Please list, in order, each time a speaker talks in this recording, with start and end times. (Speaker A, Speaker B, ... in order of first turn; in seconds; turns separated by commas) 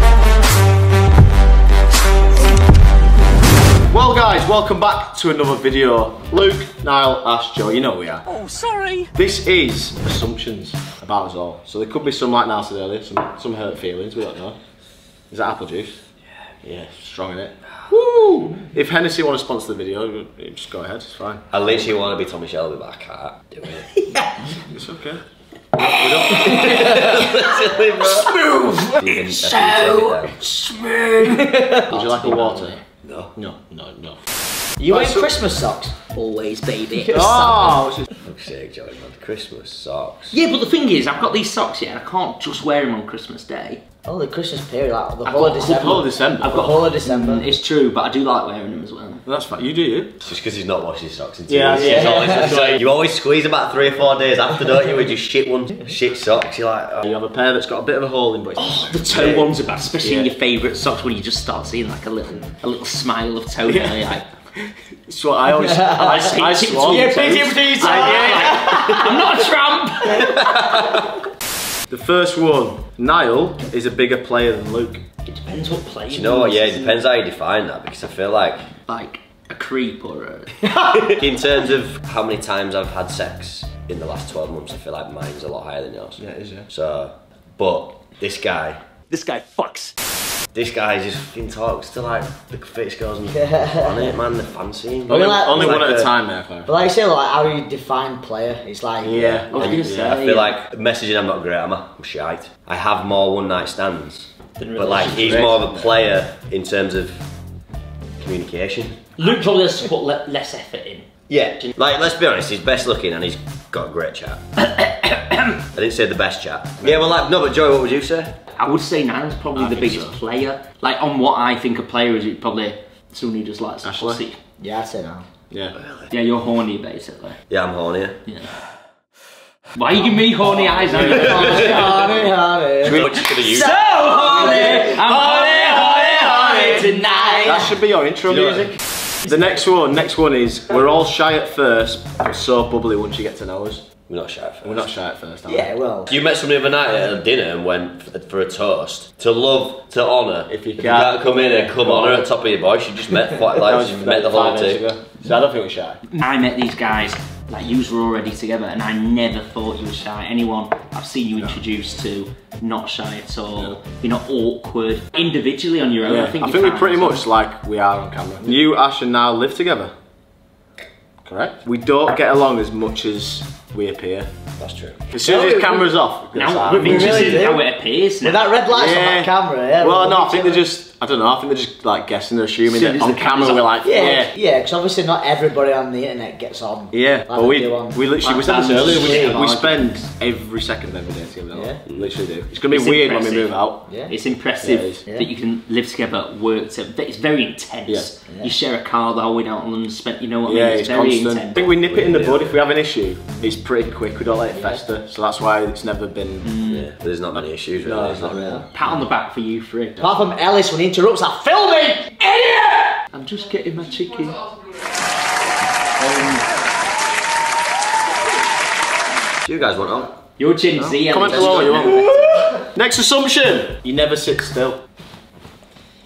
Speaker A: 3.9-8.3, Speaker B: 8.5-8.9, Speaker A: 9.1-14.6, Speaker A: 15.3-16.0, Speaker A: 16.6-21.4, Speaker C: 21.5-23.9, Speaker D: 24.1-24.4, Speaker A: 24.6-25.2, Speaker A: 25.8-26.5, Speaker D: 26.2-27.5, Speaker B: 26.5-26.9, Speaker C: 26.5-28.3, Speaker D: 28.1-28.8, Speaker B: 28.5-32.8, Speaker C: 29.0-30.4, Speaker D: 31.2-32.0, Speaker A: 31.9-32.8, Speaker C: 33.0-33.3, Speaker A: 33.3-34.3, Speaker D: 34.8-36.0, Speaker A: 34.9-35.3, Speaker B: 36.1-37.2, Speaker D: 37.0-37.9, Speaker A: 37.1-38.1, Speaker C: 38.2-40.4, Speaker B: 40.3-43.8, Speaker D: 44.0-47.5, Speaker B: 45.2-49.2, Speaker A: 45.7-46.6, Speaker A: 49.2-50.2, Speaker C: 50.2-57.0, Speaker A: 51.5-52.8, Speaker D: 51.8-52.2, Speaker A: 57.0-59.5, Speaker B: 58.6-64.2, Speaker A: 60.0-60.3, Speaker A: 63.6-68.6, Speaker B: 65.6-70.4, Speaker D: 66.8-69.1, Speaker C: 70.5-71.0, Speaker A: 71.9-75.0, Speaker B: 75.2-77.0, Speaker C: 76.1-78.7, Speaker B: 78.9-80.9, Speaker C: 81.1-88.8, Speaker A: 86.2-86.7, Speaker B: 89.1-90.0, Speaker C: 90.5-96.1, Speaker D: 93.3-94.2, Speaker A: 95.1-96.7, Speaker D: 95.1-95.9, Speaker D: 96.7-99.3, Speaker A: 99.0-100.2, Speaker C: 99.2-107.2, Speaker B: 99.5-100.5, Speaker B: 104.6-105.5, Speaker A: 105.1-105.9, Speaker C: 108.2-109.1, Speaker B: 109.2-111.1, Speaker C: 111.3-114.4, Speaker B: 114.6-115.6, Speaker C: 115.7-118.4, Speaker A: 116.8-117.1, Speaker B: 118.5-124.4, Speaker A: 119.5-120.2, Speaker A: 123.8-124.2, Speaker D: 124.6-125.2, Speaker A: 125.5-125.8, Speaker C: 125.8-126.1, Speaker B: 126.1-127.4, Speaker C: 127.5-128.2, Speaker B: 128.3-128.5, Speaker B: 129.7-132.3, Speaker D: 130.6-135.0, Speaker C: 132.8-133.8, Speaker B: 133.0-137.3, Speaker A: 134.9-136.8, Speaker D: 136.1-137.8, Speaker A: 137.4-143.8, Speaker C: 138.3-138.8, Speaker C: 144.1-144.9, Speaker A: 144.6-145.7, Speaker D: 145.5-146.1, Speaker C: 146.1-154.8, Speaker A: 150.5-152.3, Speaker A: 153.5-156.0, Speaker B: 156.1-167.2, Speaker A: 166.0-169.9, Speaker A: 171.2-174.3, Speaker C: 174.6-175.0, Speaker A: 175.1-177.5, Speaker D: 175.2-176.0, Speaker B: 176.3-178.5, Speaker D: 176.7-177.7, Speaker D: 178.2-180.6, Speaker A: 178.7-184.3, Speaker B: 182.6-183.7, Speaker D: 183.8-189.4, Speaker A: 186.9-193.8, Speaker B: 188.5-189.9, Speaker D: 191.5-191.8, Speaker B: 192.6-201.7, Speaker D: 193.9-194.1, Speaker A: 194.6-195.0, Speaker A: 200.4-206.5, Speaker C: 201.8-202.6, Speaker D: 204.5-204.8, Speaker B: 206.4-206.9, Speaker C: 206.7-208.4, Speaker A: 207.3-208.7, Speaker D: 208.3-208.7, Speaker B: 208.7-210.0, Speaker D: 210.0-212.2, Speaker B: 212.3-214.4, Speaker B: 216.0-216.4, Speaker C: 219.4-220.1, Speaker B: 220.4-222.5, Speaker A: 220.8-224.8